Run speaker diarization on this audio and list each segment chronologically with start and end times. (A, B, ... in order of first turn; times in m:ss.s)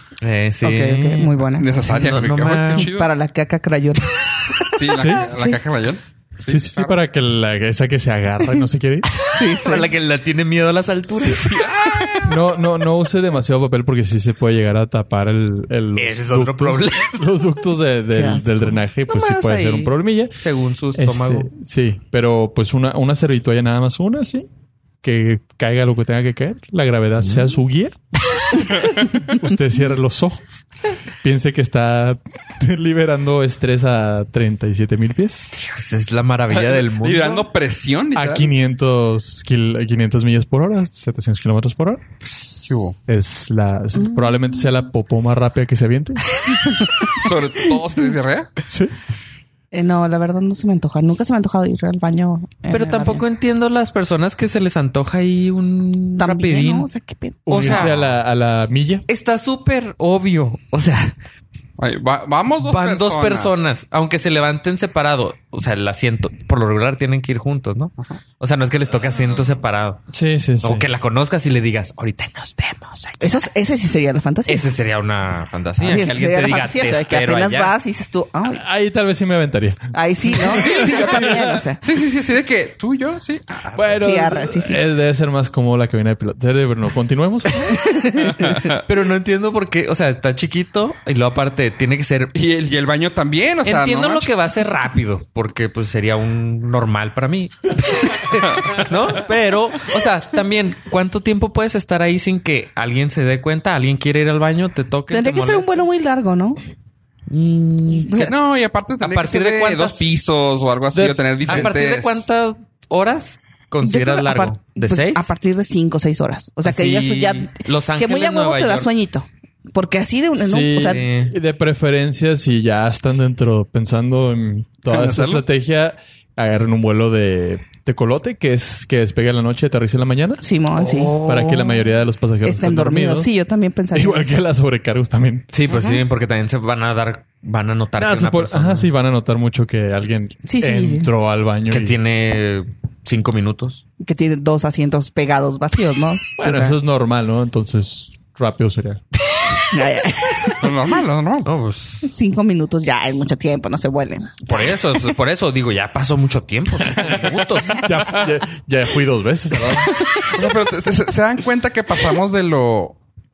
0:00.2-0:02.9 A
0:00.6-0:01.7 B
0:01.6-0:03.1 C
0:02.7-0:05.6 B
0:04.7-0:07.0 C
0:04.9-0:05.3 D
0:06.5-0:09.1 D
0:09.2-0:09.9 B
0:09.3-0:11.7 A
0:11.2-0:12.3 C
0:12.2-0:20.4 D
0:16.0-0:17.3 A
0:18.1-0:18.7 B
0:19.1-0:21.5 A
0:20.9-0:24.5 D
0:25.0-0:28.0 D
0:27.2-0:27.5 A
0:29.3-0:30.6 D
0:31.2-0:35.5 D
0:35.6-0:37.5 A
0:36.5-0:38.5 C
0:38.1-0:42.0 D
0:42.2-0:43.0 C
0:43.0-0:46.4 D
0:44.0-0:44.4 B
0:46.7-0:47.3 B
0:47.1-0:48.5 C
0:48.7-0:48.9 D
0:49.7-0:53.2 B
0:52.7-0:56.9 A
0:56.2-0:57.8 B
0:57.5-0:58.0 A
0:57.5-0:59.0 D
0:59.1-1:01.1 A
1:01.8-1:03.5 C
1:02.6-1:10.0 A
1:10.1-1:10.8 D
1:10.6-1:13.4 A
1:13.2-1:14.7 B
1:14.4-1:17.7 A
1:15.8-1:18.6 B
1:18.5-1:21.6 D
1:19.9-1:21.8 B
1:21.8-1:24.0 C
1:23.7-1:27.8 D
1:24.0-1:24.8 B
1:27.7-1:28.6 B
1:28.4-1:28.8 C
1:28.7-1:32.3 A
1:32.3-1:34.3 C
1:33.6-1:45.8 A
1:38.4-1:38.8 C
1:45.1-1:46.6 B
1:47.3-1:48.3 A
1:48.2-1:52.2 C
1:49.0-1:50.1 A
1:50.9-1:51.7 D
1:51.4-1:55.3 A
1:53.8-2:01.0 B
1:56.6-1:58.9 A
2:00.4-2:10.4 D
2:00.7-2:01.3 A
2:04.9-2:05.4 C
2:10.4-2:11.4 B
2:10.8-2:11.9 A
2:11.1-2:13.3 D
2:12.4-2:14.3 B
2:13.9-2:15.5 D
2:15.5-2:18.9 A
2:15.7-2:16.0 B
2:18.0-2:22.0 D
2:20.4-2:21.1 B
2:21.7-2:23.8 A
2:24.0-2:26.8 B
2:26.4-2:29.0 D
2:29.6-2:30.7 B
2:30.6-2:31.5 C
2:31.4-2:32.0 A
2:32.0-2:34.6 B
2:34.4-2:37.9 A
2:37.7-2:40.0 D
2:40.0-2:40.3 B
2:40.3-2:43.0 C